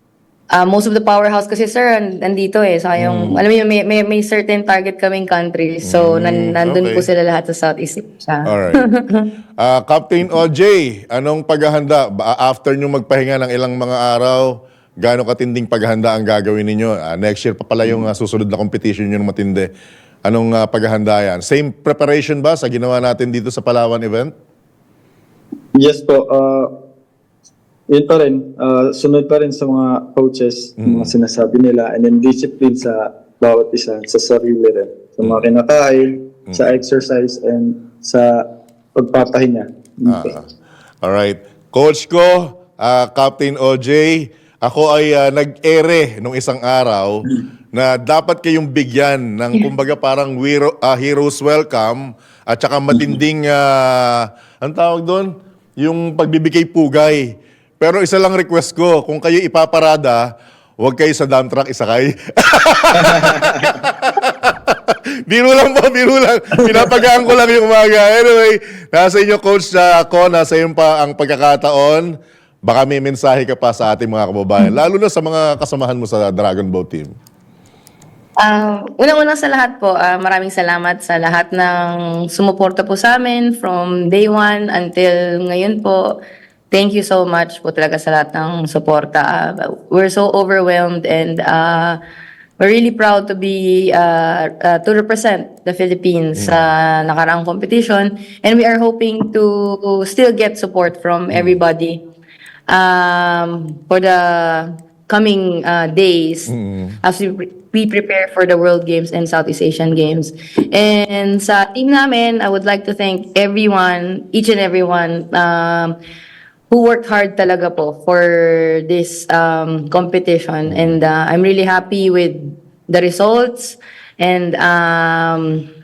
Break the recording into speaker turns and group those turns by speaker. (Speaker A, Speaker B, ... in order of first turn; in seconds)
Speaker A: 0.5-9.3, 78.4-86.2, 86.7-92.0, 92.6-102.0, 102.7-116.0, 116.7-125.7
Speaker B: 3.0-3.4, 5.8-7.1, 8.5-8.9, 9.6-19.7, 20.3-24.3, 30.8-31.1, 36.5-36.8, 40.1-40.5, 41.0-60.3, 60.8-72.1, 72.7-77.1, 96.4-96.7, 101.3-101.6, 106.5-107.0, 120.7-121.0
Speaker C: 25.8-26.7, 27.9-38.4, 39.0-40.3, 63.0-63.7